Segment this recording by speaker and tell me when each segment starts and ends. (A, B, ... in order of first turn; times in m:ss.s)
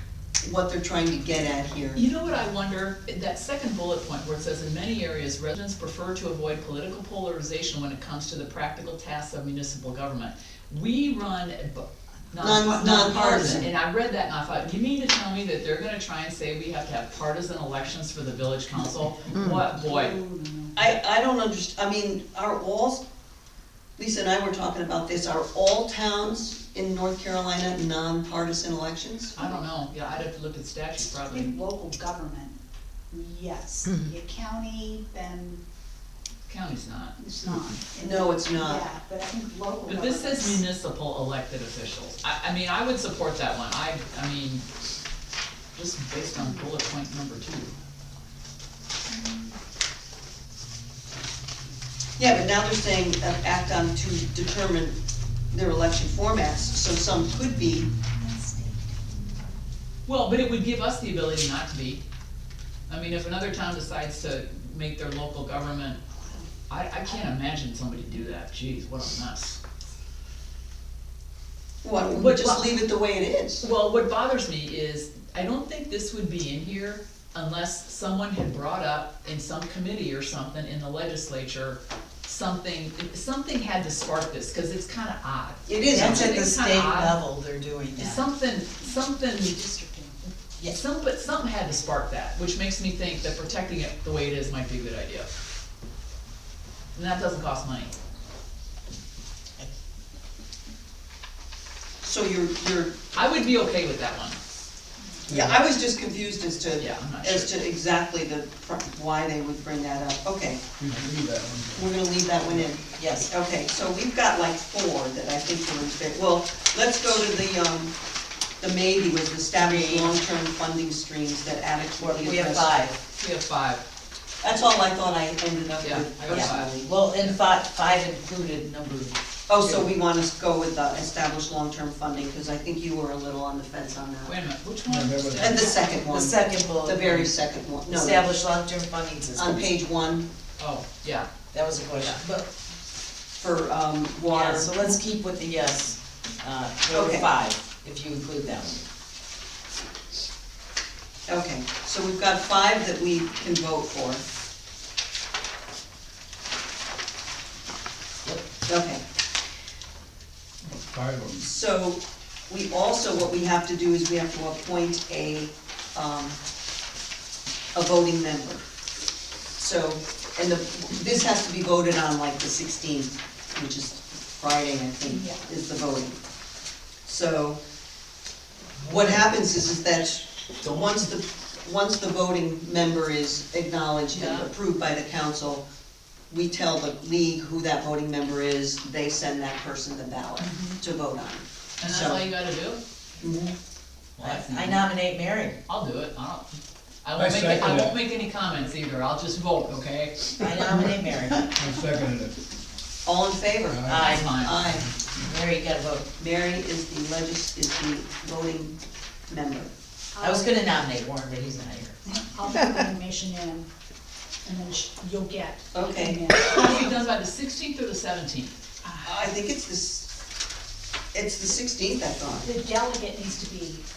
0:00.4-0:02.0 A
0:01.9-0:20.2 B
0:12.4-0:13.7 A
0:19.3-0:20.0 A
0:20.0-0:20.7 C
0:20.7-0:23.0 A
0:24.0-0:29.4 A
0:29.4-0:31.6 B
0:31.3-0:32.6 C
0:33.1-0:35.6 C
0:36.5-0:37.2 B
0:37.2-0:40.6 C
0:38.0-0:38.8 A
0:39.9-0:44.6 B
0:45.8-0:47.7 B
0:46.4-0:46.6 C
0:49.1-0:49.6 C
0:52.2-0:55.0 A
0:55.5-0:57.9 A
0:58.1-0:59.3 C
1:00.1-1:02.0 B
1:02.9-1:06.0 B
1:06.7-1:09.6 B
1:11.8-1:13.7 A
1:12.1-1:12.8 B
1:13.6-1:27.2 B
1:25.7-1:26.4 A
1:25.9-1:28.2 D
1:28.0-1:29.6 B
1:28.7-1:30.2 C
1:30.7-1:35.3 B
1:36.9-1:37.9 B
1:42.0-1:43.0 A
1:43.1-1:44.4 B
1:45.3-1:45.6 E
1:45.3-1:50.7 A
1:46.8-1:47.5 B
1:50.8-1:51.9 E
1:51.7-1:58.0 A
1:53.0-1:53.3 D
1:58.6-2:02.8 A
1:59.7-2:00.0 B
2:02.0-2:03.0 D
2:03.2-2:03.8 B
2:04.4-2:06.9 A
2:05.8-2:07.3 B
2:06.3-2:09.9 D
2:09.5-2:14.4 A
2:14.2-2:15.8 B
2:14.9-2:15.6 E
2:15.4-2:18.3 A
2:15.8-2:19.6 D
2:19.4-2:20.3 A
2:20.6-2:21.3 B
2:21.5-2:22.5 D
2:22.0-2:22.2 B
2:23.4-2:24.8 A
2:24.3-2:28.9 D
2:26.9-2:27.3 A
2:31.3-2:34.2 A
2:38.7-2:39.0 A
2:40.7-2:41.5 E
2:41.4-2:46.4 A
2:47.8-2:48.6 A
2:49.6-2:56.2 A
2:55.1-2:55.4 C
2:57.0-2:57.6 A
2:58.8-3:05.6 A
3:00.6-3:01.0 B
3:06.3-3:12.2 A
3:10.4-3:10.8 B
3:11.8-3:12.8 B
3:13.2-3:13.5 A
3:14.2-3:14.9 B
3:14.2-3:15.6 D
3:15.7-3:16.5 B
3:17.0-3:20.5 B
3:17.2-3:18.0 E
3:20.4-3:21.6 D
3:21.6-3:22.4 E
3:23.0-3:24.9 A
3:23.7-3:24.1 E
3:23.8-3:24.4 D
3:24.0-3:24.6 B
3:25.2-3:26.1 D
3:26.2-3:28.8 A
3:29.3-3:29.7 A
3:30.1-3:30.6 C
3:30.2-3:32.9 D
3:32.1-3:33.7 C
3:34.4-3:36.9 C
3:35.7-3:36.2 A
3:36.4-3:38.5 B
3:38.8-3:39.1 C
3:39.0-3:40.1 A
3:41.1-3:42.5 A
3:42.4-3:43.8 C